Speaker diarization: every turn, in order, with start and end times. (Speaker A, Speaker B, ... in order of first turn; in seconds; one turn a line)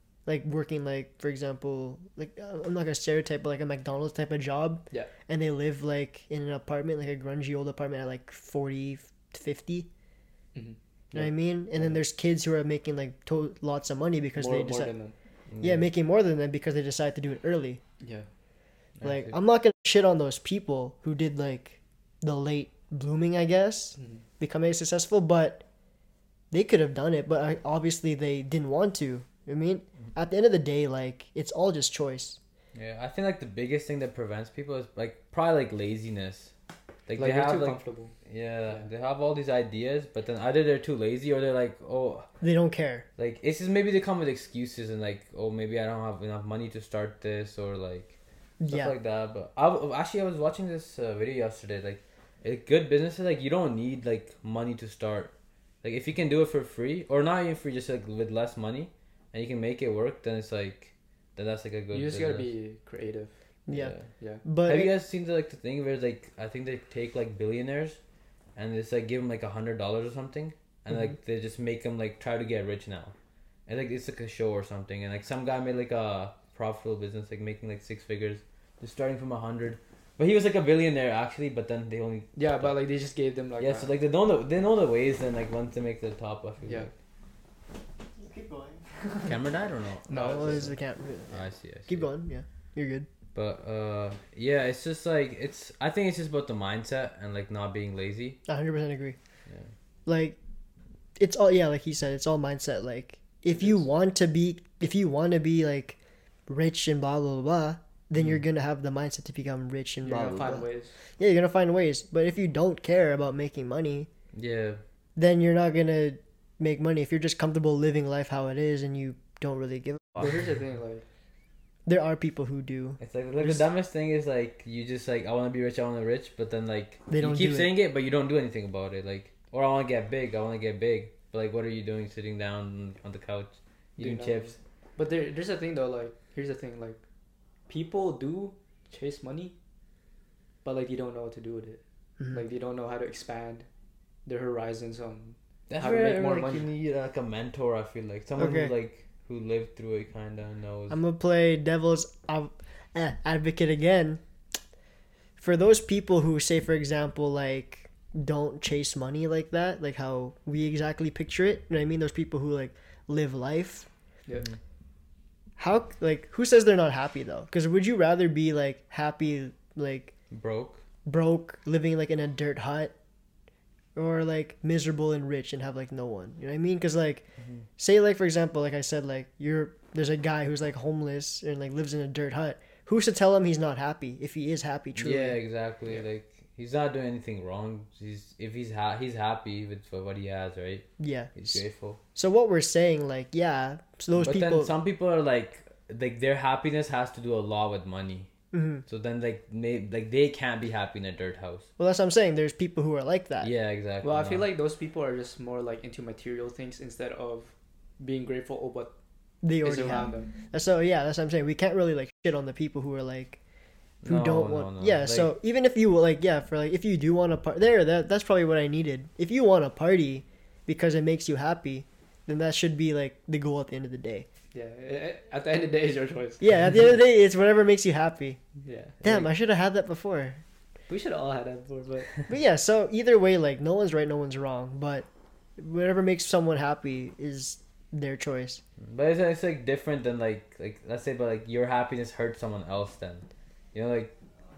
Speaker A: 0.3-9.9
Speaker A: 11.1-14.9
Speaker B: 14.4-15.2
Speaker C: 15.5-15.9
Speaker A: 15.6-17.8
Speaker B: 18.0-18.3
Speaker C: 19.0-19.4
Speaker A: 19.0-25.6
Speaker B: 24.0-24.2
Speaker A: 26.5-32.4
Speaker C: 32.7-36.5
Speaker C: 37.1-42.3
Speaker B: 37.2-38.1
Speaker A: 42.4-43.0
Speaker C: 43.2-48.2
Speaker A: 48.6-48.9
Speaker C: 48.7-62.5
Speaker B: 61.9-63.4
Speaker A: 63.7-63.9
Speaker C: 63.7-64.1
Speaker B: 64.2-64.4
Speaker A: 64.5-64.9
Speaker C: 64.7-68.0
Speaker C: 68.6-73.1
Speaker C: 73.7-82.8
Speaker B: 82.4-83.9
Speaker C: 83.6-86.9
Speaker A: 88.2-89.4
Speaker C: 89.3-90.7
Speaker B: 90.1-90.8
Speaker A: 90.1-93.1
Speaker C: 91.3-92.1
Speaker C: 93.3-98.4
Speaker A: 98.5-99.2
Speaker A: 100.1-100.4
Speaker A: 101.2-110.7
Speaker B: 103.5-103.8
Speaker C: 108.2-108.4
Speaker B: 110.0-110.9
Speaker A: 111.2-114.1
Speaker C: 114.3-114.8
Speaker A: 115.2-120.3
Speaker B: 120.2-121.0
Speaker A: 121.9-123.7
Speaker C: 123.0-134.6
Speaker A: 127.1-127.7
Speaker B: 134.0-137.0
Speaker B: 137.7-139.5
Speaker B: 140.7-141.8
Speaker B: 142.3-143.7
Speaker B: 144.3-146.7
Speaker C: 145.7-151.0
Speaker A: 148.4-148.7
Speaker A: 150.9-154.2
Speaker A: 155.4-163.9
Speaker A: 165.6-170.1
Speaker C: 170.3-170.8
Speaker A: 171.1-172.9
Speaker A: 174.0-177.2
Speaker A: 177.8-185.4
Speaker C: 185.0-192.0
Speaker A: 191.0-191.3
Speaker A: 192.2-194.7
Speaker C: 194.1-198.3
Speaker A: 198.5-198.8
Speaker C: 198.9-201.7
Speaker A: 201.8-203.5
Speaker C: 203.4-204.5
Speaker B: 204.0-208.9
Speaker A: 209.4-213.4
Speaker B: 209.6-210.3
Speaker C: 214.0-215.3
Speaker A: 214.1-224.3
Speaker B: 224.5-226.5
Speaker A: 226.4-228.4
Speaker B: 228.6-229.3
Speaker A: 229.0-230.4
Speaker B: 230.9-232.1
Speaker A: 232.3-235.1
Speaker A: 235.6-238.6
Speaker C: 238.8-244.2